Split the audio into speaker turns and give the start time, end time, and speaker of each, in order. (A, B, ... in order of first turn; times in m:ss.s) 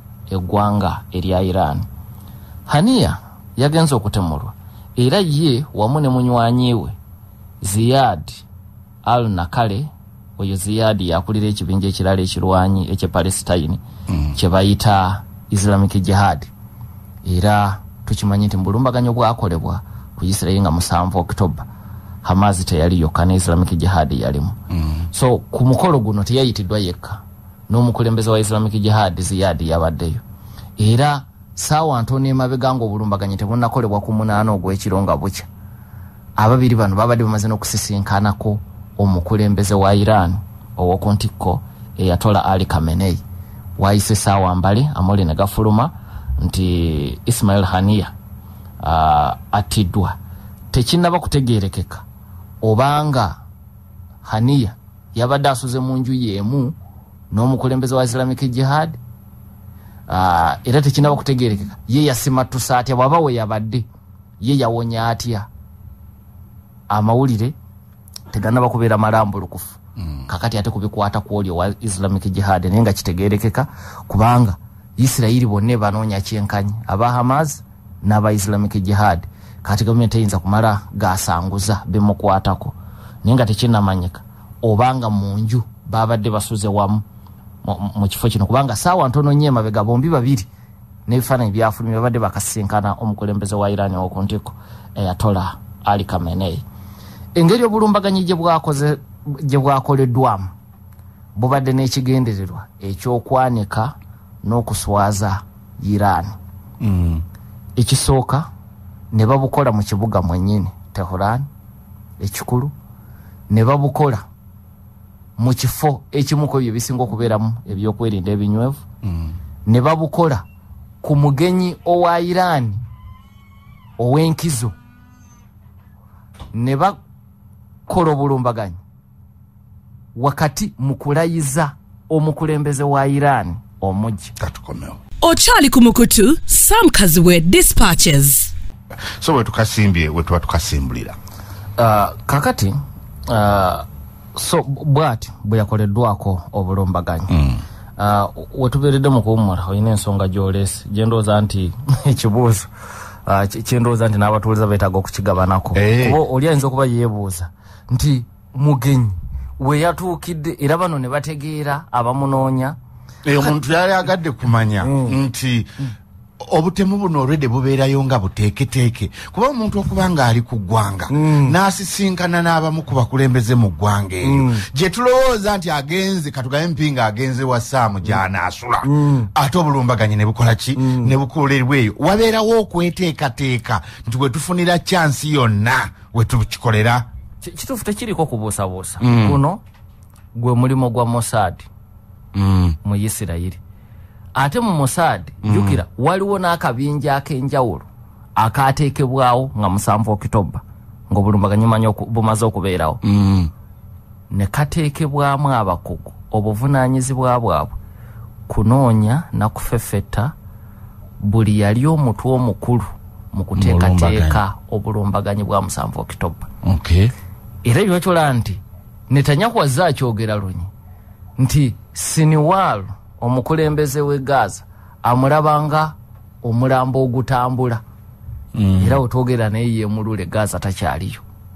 0:00.3-0:01.9 A
0:02.7-0:07.0 A
0:07.6-0:08.4 A
0:09.0-0:13.8 A
0:14.1-0:14.4 B
0:14.3-0:16.5 A
0:17.2-0:21.7 A
0:22.2-0:24.6 A
0:24.7-0:25.1 B
0:25.1-0:30.2 A
0:30.8-0:35.5 A
0:36.4-0:43.2 A
0:43.8-0:48.1 A
0:48.8-0:50.2 A
0:50.7-0:52.0 A
0:52.6-0:53.4 A
0:54.2-0:56.7 A
0:57.3-0:59.0 A
1:00.1-1:03.9 A
1:04.4-1:05.5 A
1:06.9-1:07.5 A
1:08.3-1:27.0 A
1:10.0-1:10.3 B
1:27.6-1:30.5 A
1:31.1-1:36.6 A
1:37.4-1:40.5 A
1:41.4-1:46.4 A
1:46.8-1:47.2 B
1:47.8-1:48.5 A
1:49.1-1:51.5 A
1:52.2-1:52.7 A
1:53.5-1:54.2 A
1:55.4-1:58.8 A
1:59.0-1:59.3 B
1:59.7-2:00.4 A
2:01.0-2:02.8 A
2:04.0-2:04.7 A
2:06.5-2:07.0 A
2:07.9-2:08.8 A
2:10.2-2:14.3 A
2:14.4-2:15.0 B
2:15.2-2:18.5 C
2:19.2-2:21.2 B
2:21.8-2:22.8 A
2:23.3-2:27.4 A
2:27.3-2:27.6 B
2:28.0-2:32.7 A
2:33.3-2:42.8 A
2:35.7-2:36.2 B
2:43.2-2:45.7 B
2:44.8-2:45.2 A
2:46.4-3:07.1 B
2:51.1-2:51.6 A
2:54.2-2:54.6 A
2:58.8-2:59.3 A
3:00.8-3:01.1 A
3:07.4-3:09.6 A
3:09.0-3:09.4 B
3:10.4-3:11.7 A
3:12.4-3:12.8 B
3:12.8-3:13.6 A
3:14.4-3:23.0 A
3:15.4-3:15.8 B
3:23.0-3:23.5 B
3:24.3-3:27.7 A
3:28.5-3:30.3 A
3:31.2-3:36.5 A
3:33.6-3:34.4 B
3:36.6-3:37.1 B
3:37.6-3:40.7 A
3:41.4-3:47.8 A
3:48.6-3:49.0 B
3:48.8-3:51.2 A